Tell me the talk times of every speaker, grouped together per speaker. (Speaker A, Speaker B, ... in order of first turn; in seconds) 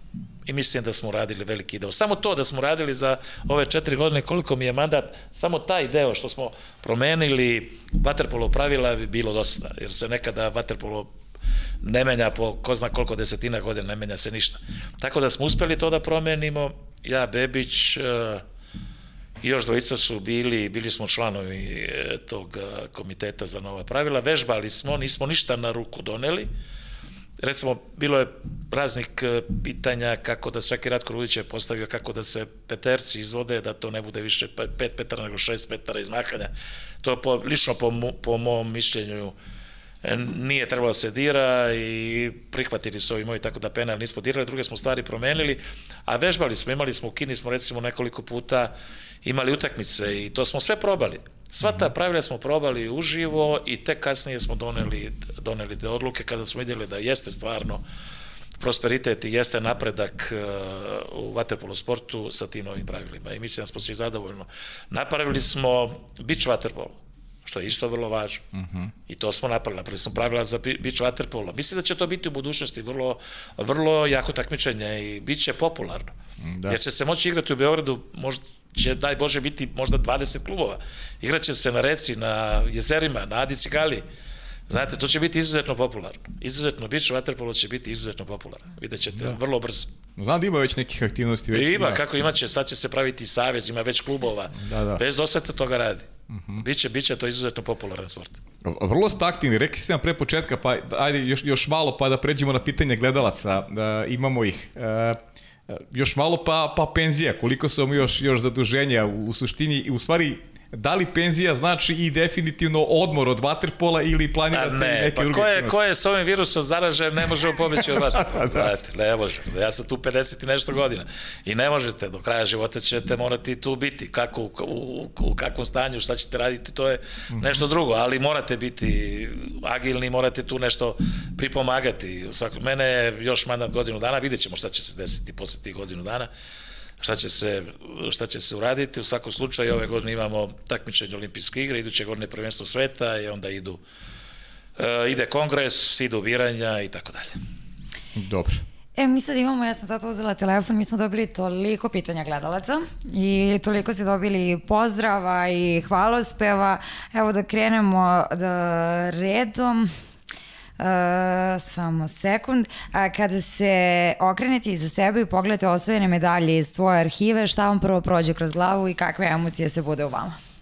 Speaker A: 0.5-11.1, 11.8-18.4, 19.4-26.5, 27.4-39.4, 40.0-57.8, 58.6-68.5, 69.1-76.1, 76.7-84.0, 84.7-89.9, 91.5-98.4, 114.5-136.3, 137.0-143.8, 144.8-147.4
Speaker B: 51.6-51.9, 68.5-68.9, 76.4-76.8, 90.2-92.0, 94.6-95.0, 96.3-96.7, 98.6-115.8, 118.1-118.7, 127.3-127.6, 148.2-148.7
Speaker C: 149.0-159.9, 160.8-170.4